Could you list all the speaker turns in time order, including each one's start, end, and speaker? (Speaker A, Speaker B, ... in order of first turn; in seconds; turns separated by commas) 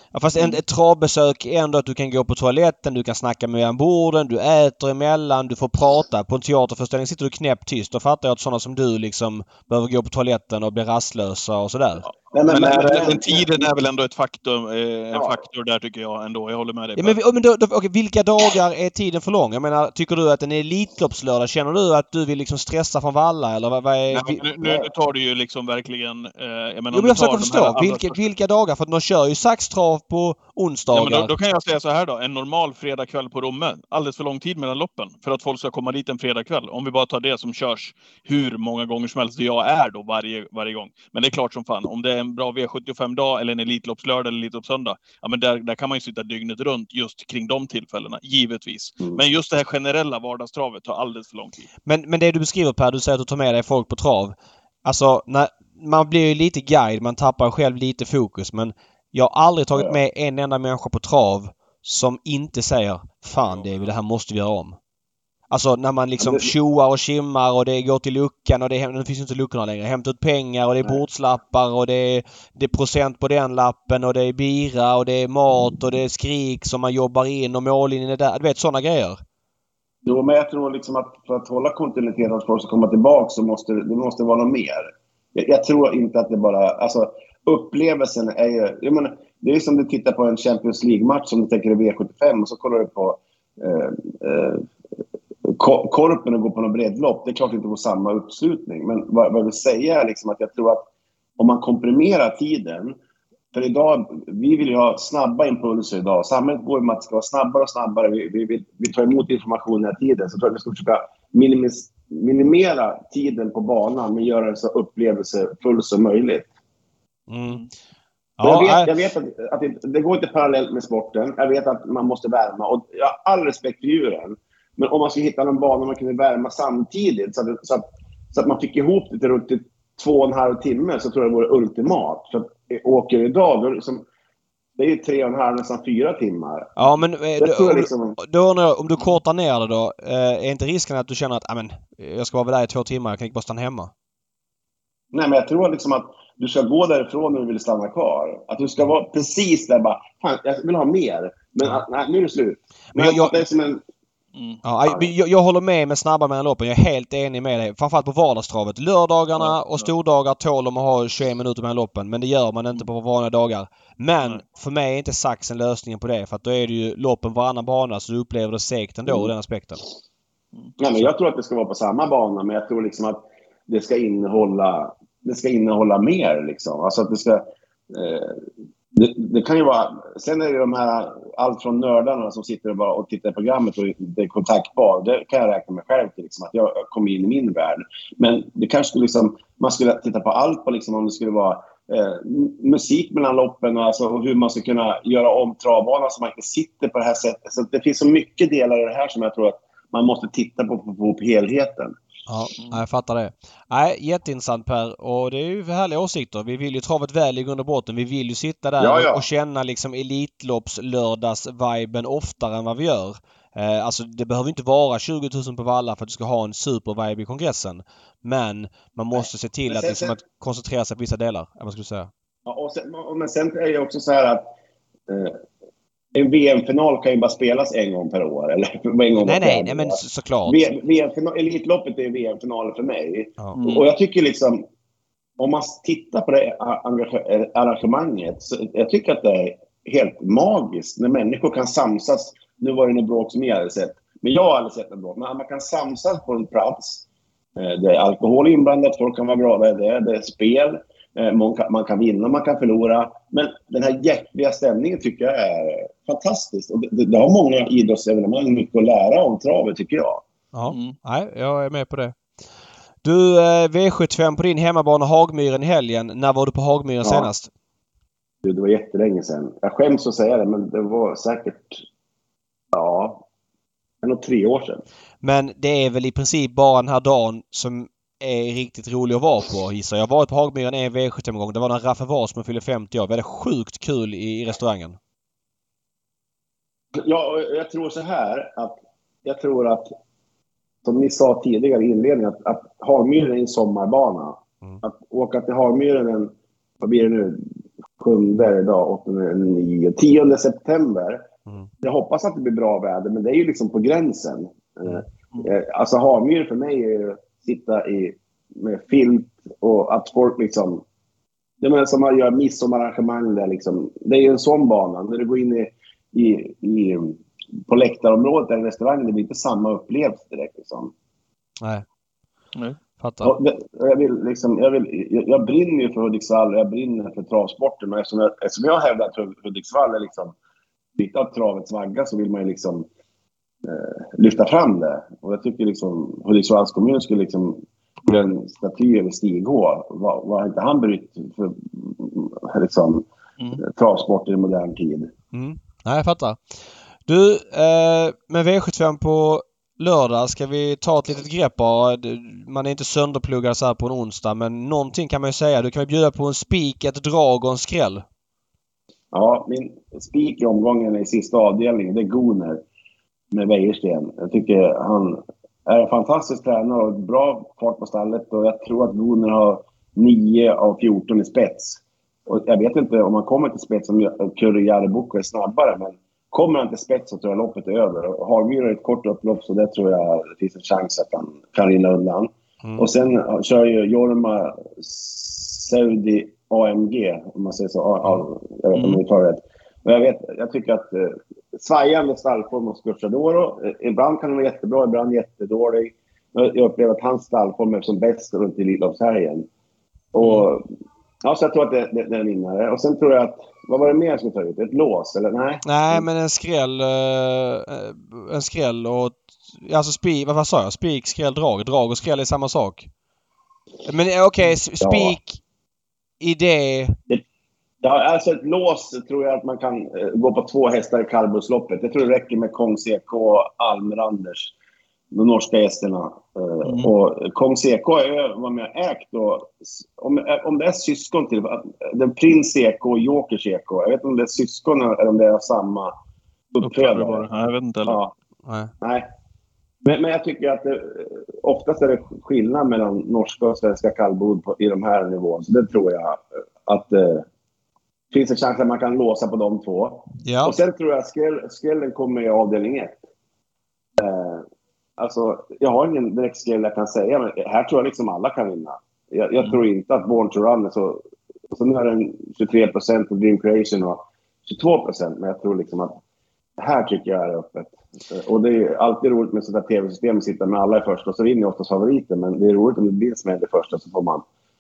Speaker A: 0.1-12.1, Speaker B: 12.0-17.2, Speaker C: 12.3-13.6, Speaker A: 17.0-24.4, Speaker B: 24.1-28.1, Speaker C: 24.6-24.9, Speaker A: 26.9-31.3, Speaker B: 30.9-51.7, Speaker A: 51.9-64.8, Speaker A: 65.5-79.2, Speaker C: 66.2-66.5, Speaker C: 80.1-94.7, Speaker C: 95.5-100.9, Speaker C: 101.4-103.0, Speaker C: 103.5-116.5, Speaker A: 117.3-117.6, Speaker A: 118.4-118.9, Speaker C: 118.4-134.1, Speaker C: 134.8-136.8, Speaker A: 136.8-143.9, Speaker C: 137.4-138.2, Speaker C: 145.1-153.8, Speaker A: 152.9-153.4, Speaker B: 154.3-154.6, Speaker A: 154.6-169.8, Speaker C: 154.9-155.1, Speaker C: 170.8-178.4, Speaker C: 178.9-202.0, Speaker A: 202.3-222.1, Speaker C: 208.8-209.3, Speaker C: 219.7-220.2, Speaker C: 222.5-224.5, Speaker C: 225.1-225.4, Speaker C: 226.2-234.6, Speaker A: 229.2-230.6, Speaker B: 233.6-233.9, Speaker C: 235.4-247.1, Speaker C: 247.6-260.2, Speaker A: 260.5-262.2, Speaker B: 260.7-261.0, Speaker A: 263.0-267.5, Speaker C: 267.0-267.3, Speaker C: 268.4-271.8, Speaker C: 272.7-273.2, Speaker C: 274.0-274.8, Speaker A: 275.2-285.0, Speaker C: 286.9-289.9, Speaker C: 290.9-297.4, Speaker C: 298.0-301.3, Speaker C: 301.8-310.8, Speaker C: 311.6-320.9, Speaker A: 323.0-323.3, Speaker C: 323.2-330.4, Speaker C: 331.0-332.9, Speaker C: 333.6-343.0, Speaker C: 343.6-345.1, Speaker A: 345.3-346.4, Speaker A: 347.1-358.1, Speaker C: 359.1-362.6, Speaker C: 363.3-399.5, Speaker A: 382.6-382.9, Speaker B: 388.7-389.0, Speaker C: 400.1-400.6, Speaker C: 401.2-406.1, Speaker A: 405.6-412.9, Speaker A: 413.9-415.4, Speaker C: 414.8-415.2, Speaker A: 416.2-417.0, Speaker C: 417.8-424.5, Speaker C: 425.1-435.9, Speaker B: 426.6-426.9, Speaker C: 436.5-437.2, Speaker B: 436.6-438.0, Speaker C: 437.9-438.1, Speaker A: 438.5-438.7, Speaker C: 438.8-439.1, Speaker C: 439.9-447.2, Speaker C: 448.1-453.0, Speaker A: 450.2-450.6, Speaker C: 454.0-454.4, Speaker C: 455.0-461.0, Speaker C: 461.5-466.0, Speaker C: 466.6-474.2